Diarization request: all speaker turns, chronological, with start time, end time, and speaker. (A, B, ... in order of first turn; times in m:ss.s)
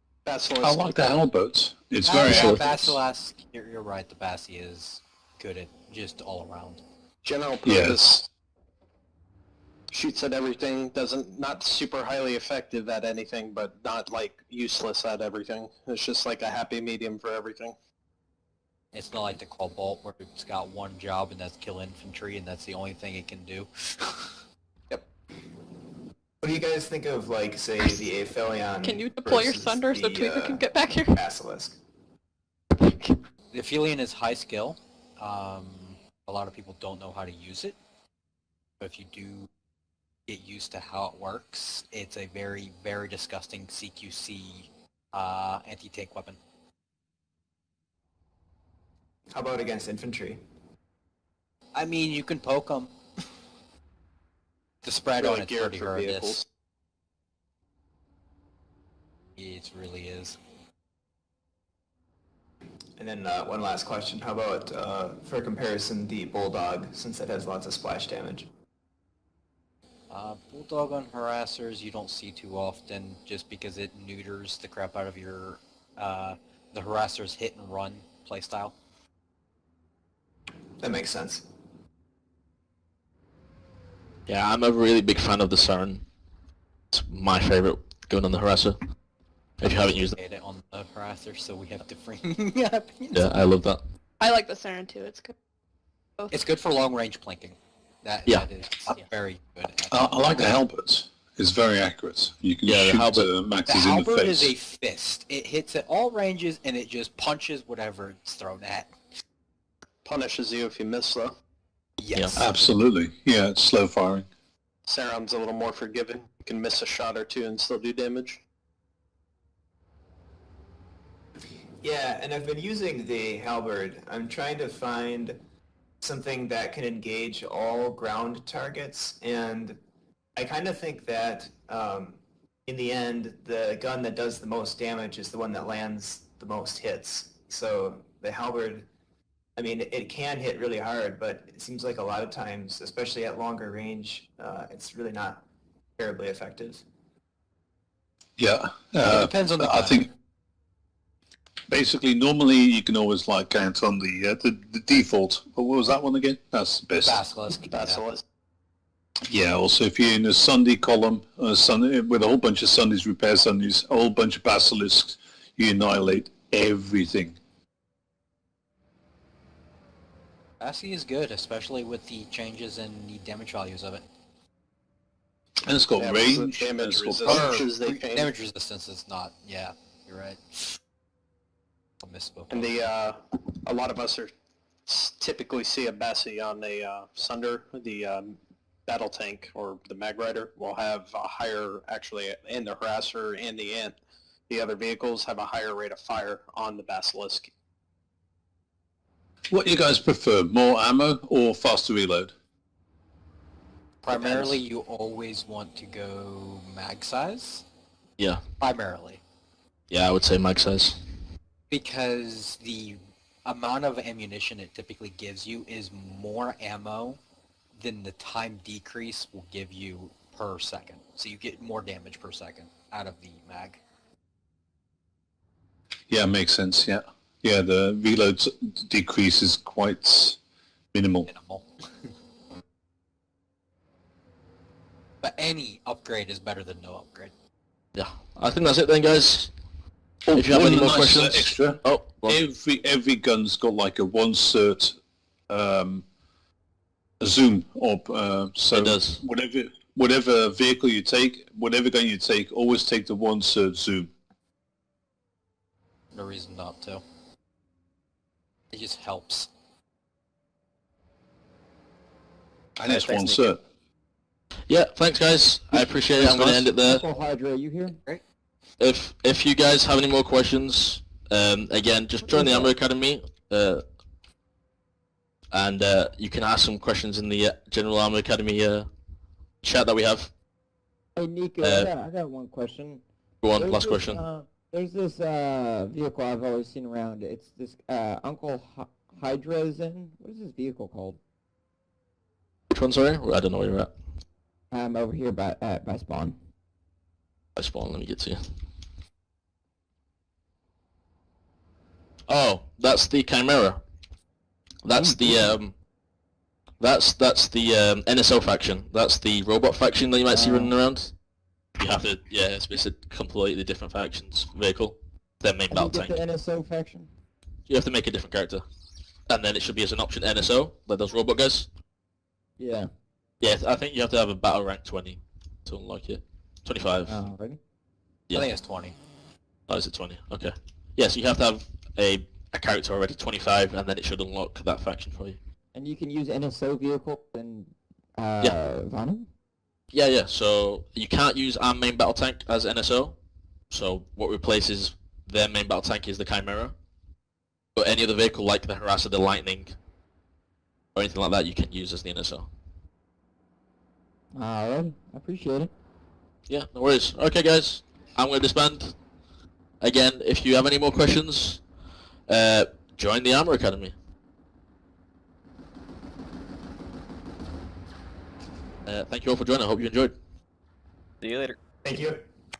0:00.2-0:01.1 A
0:00.6-0:03.0 B
0:02.0-0:06.8 C
0:02.3-0:02.6 D
0:07.2-0:08.3 A
0:07.6-0:08.1 B
0:09.9-0:17.7 A
0:18.9-0:24.3 C
0:26.4-0:31.8 E
0:28.8-0:31.2 F
0:32.7-0:33.2 F
0:33.5-0:37.8 C
0:38.8-0:39.5 C
0:40.3-0:46.4 C
0:49.3-0:50.4 E
0:51.7-0:52.9 C
0:54.8-0:56.4 C
0:55.2-0:56.4 A
0:59.4-1:00.4 C
1:03.0-1:08.5 E
1:10.1-1:18.8 C
1:20.8-1:21.5 E
1:24.3-1:26.0 D
1:26.9-1:28.8 D
1:29.6-1:30.2 D
1:29.6-1:33.3 C
1:33.1-1:33.8 D
1:34.2-1:35.3 F
1:36.3-1:40.6 C
1:39.9-1:44.5 B
1:42.6-1:43.3 D
1:43.7-1:48.9 C
1:50.0-1:51.4 A
1:52.0-1:52.5 C
1:52.1-1:52.4 D
1:52.4-1:54.3 B
1:54.8-1:58.4 A
2:01.8-2:05.4 E
2:06.0-2:09.8 E
2:10.4-2:18.9 E
2:19.6-2:25.4 E
2:26.0-2:26.8 E
2:28.4-2:30.1 B
2:29.0-2:30.1 C
2:31.7-2:37.2 B
2:37.0-2:38.0 C
2:37.5-2:38.2 A
2:39.3-2:47.4 B
2:50.6-2:54.0 C
2:55.6-2:57.6 B
2:56.0-2:58.3 A
2:57.2-3:00.8 C
3:02.0-3:02.9 C
3:02.5-3:04.3 A
3:04.9-3:14.0 A
3:14.5-3:17.5 A
3:19.5-3:22.3 B
3:24.0-3:27.6 C
3:24.1-3:24.6 B
3:28.6-3:29.2 C
3:29.9-3:31.0 D
3:31.7-3:37.2 C
3:37.8-3:43.8 C
3:46.1-3:50.4 B
3:50.9-3:51.3 B
3:51.3-3:52.1 C
3:55.2-3:57.3 C
3:57.9-3:59.5 D
4:00.2-4:05.0 B
4:00.3-4:02.4 D
4:05.5-4:06.0 B
4:07.2-4:14.1 B
4:08.7-4:09.2 D
4:16.1-4:17.0 C
4:18.7-4:19.5 C
4:22.8-4:23.6 B
4:22.9-4:23.5 C
4:24.7-4:27.0 D
4:25.8-4:26.6 B
4:26.8-4:28.0 G
4:27.9-4:28.2 C
4:28.8-4:33.8 D
4:32.2-4:32.7 G
4:35.5-4:38.9 D
4:39.6-4:40.3 D
4:41.2-4:43.0 G
4:41.6-4:41.9 D
4:43.4-4:44.2 D
4:43.6-4:51.2 G
4:52.7-4:53.9 D
4:54.7-4:56.4 G
4:57.6-4:58.4 D
5:02.3-5:03.8 D
5:04.8-5:05.7 D
5:04.9-5:05.6 G
5:06.8-5:11.1 D
5:10.3-5:10.7 G
5:11.8-5:16.2 D
5:15.7-5:17.1 G
5:17.7-5:18.6 D
5:19.3-5:21.7 D
5:22.6-5:22.9 G
5:23.4-5:27.2 D
5:27.0-5:27.6 G
5:28.3-5:29.0 C
5:29.7-5:35.4 D
5:35.7-5:39.3 G
5:39.9-5:43.2 D
5:43.7-5:46.7 D
5:47.7-5:49.8 D
5:50.9-5:52.5 D
5:54.3-5:55.7 G
5:56.5-5:59.0 D
5:59.8-6:01.6 D
6:02.3-6:03.9 D
6:08.8-6:10.1 D
6:11.2-6:12.3 E